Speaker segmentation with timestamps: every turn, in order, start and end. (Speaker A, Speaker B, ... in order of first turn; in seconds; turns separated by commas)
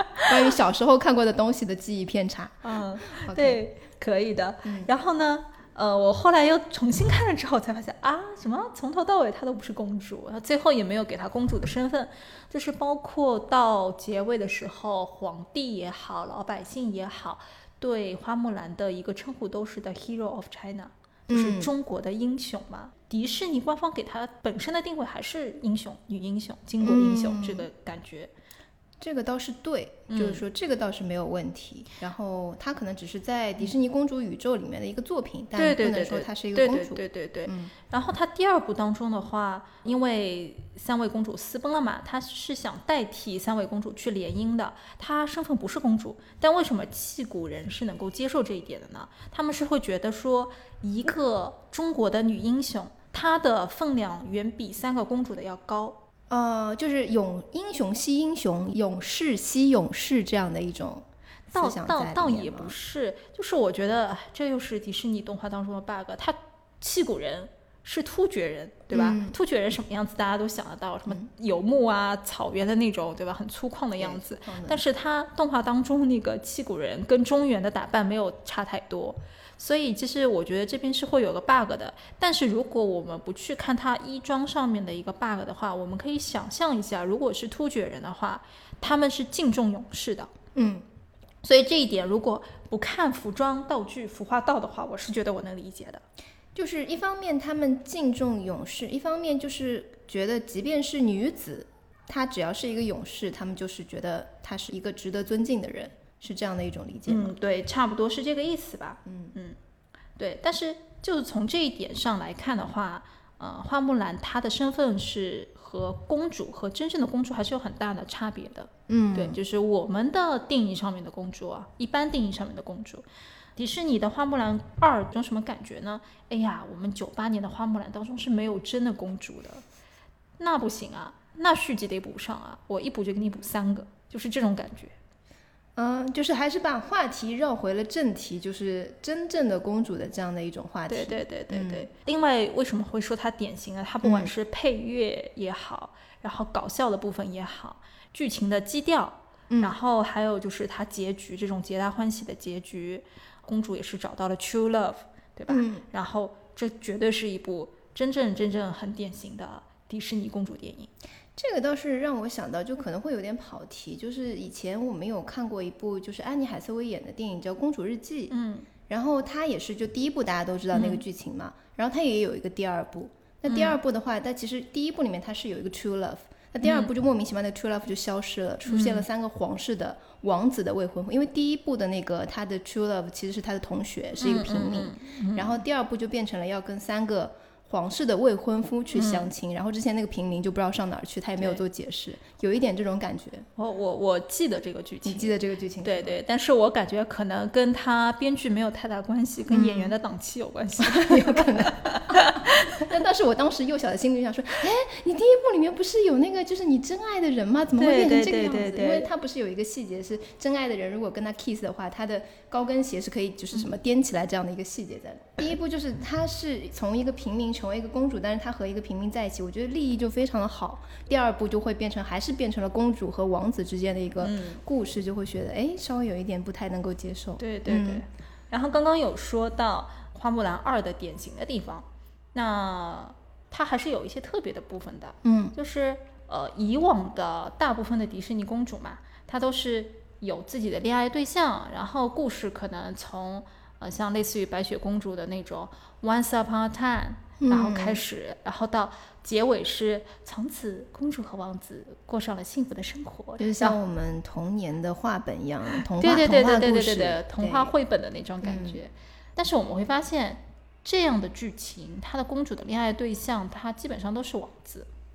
Speaker A: 0.2-3.6, Speaker B: 2.6-28.3, Speaker A: 4.6-4.9, Speaker A: 21.3-21.7, Speaker A: 26.8-27.7, Speaker A: 29.0-37.7, Speaker B: 30.1-30.4, Speaker B: 35.6-56.0, Speaker A: 56.3-62.8, Speaker B: 61.5-90.3, Speaker A: 68.9-69.3, Speaker A: 74.0-74.8, Speaker A: 90.5-90.8, Speaker B: 91.4-96.0, Speaker A: 96.5-107.3, Speaker B: 107.1-109.6, Speaker A: 109.1-109.3, Speaker B: 110.2-123.0, Speaker A: 118.9-119.4, Speaker B: 123.6-129.6, Speaker B: 130.4-134.9, Speaker A: 135.8-141.9, Speaker B: 140.9-160.9, Speaker A: 144.0-144.3, Speaker A: 149.5-149.8, Speaker A: 155.5-155.8, Speaker A: 161.4-168.3, Speaker B: 168.3-168.7, Speaker A: 168.9-193.5, Speaker B: 170.7-171.0, Speaker B: 173.5-173.8, Speaker B: 176.6-176.9, Speaker B: 178.7-179.1, Speaker B: 184.2-185.6, Speaker B: 188.9-189.3, Speaker B: 193.6-202.8, Speaker A: 195.1-196.1, Speaker A: 199.5-199.9, Speaker A: 200.8-228.0, Speaker B: 207.8-209.1, Speaker B: 224.2-224.6, Speaker B: 227.4-253.8, Speaker A: 235.2-235.6, Speaker A: 247.4-248.0, Speaker A: 253.4-257.7, Speaker B: 256.0-264.9, Speaker A: 258.4-258.8